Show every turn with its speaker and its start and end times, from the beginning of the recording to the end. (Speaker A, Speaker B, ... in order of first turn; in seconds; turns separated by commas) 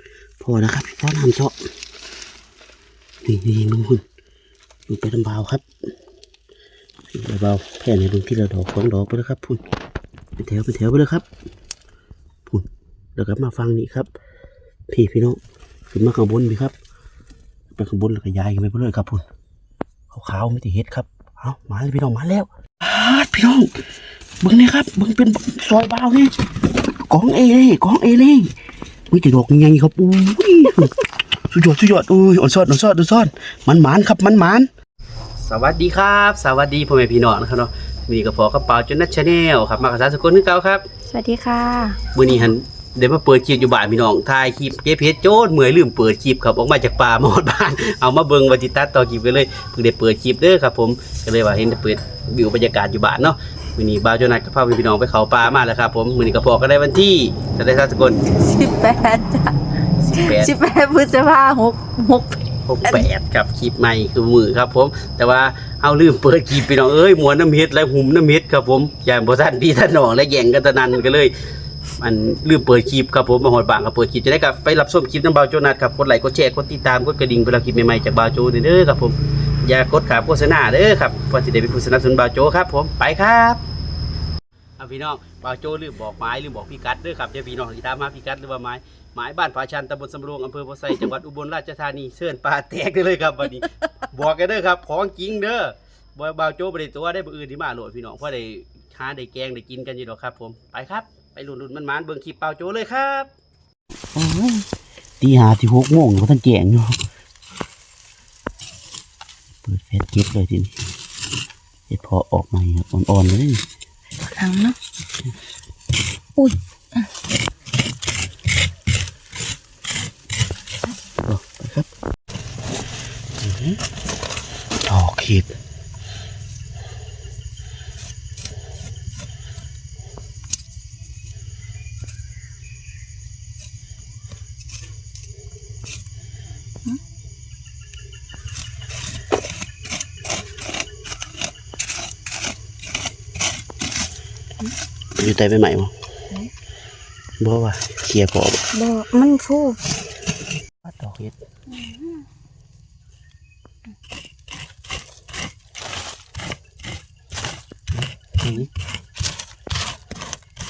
Speaker A: 0.4-1.6, Speaker A: 3.2-4.0, Speaker A: 4.9-5.7, Speaker A: 7.1-9.6, Speaker A: 10.4-11.3, Speaker A: 12.5-14.1, Speaker A: 14.9-15.4, Speaker A: 15.9-16.7, Speaker A: 17.8-19.2, Speaker A: 20.1-23.7, Speaker A: 24.4-26.3, Speaker A: 27.1-28.5, Speaker A: 29.1-30.9, Speaker A: 31.5-34.7, Speaker A: 35.5-40.9, Speaker B: 41.1-42.5, Speaker A: 42.1-58.3, Speaker B: 58.3-59.6, Speaker A: 60.0-60.5, Speaker B: 60.1-63.1, Speaker A: 62.7-71.3, Speaker A: 72.0-83.6, Speaker A: 84.8-103.3, Speaker A: 104.2-104.7, Speaker A: 105.2-107.0, Speaker A: 109.7-110.8, Speaker A: 111.9-113.6, Speaker B: 114.3-114.8, Speaker B: 116.4-117.1, Speaker A: 121.2-121.9, Speaker A: 123.4-123.8, Speaker A: 124.9-125.5, Speaker A: 145.2-145.9, Speaker A: 147.4-148.6, Speaker B: 148.7-149.8, Speaker A: 150.8-151.3, Speaker B: 151.7-152.2, Speaker A: 157.9-158.7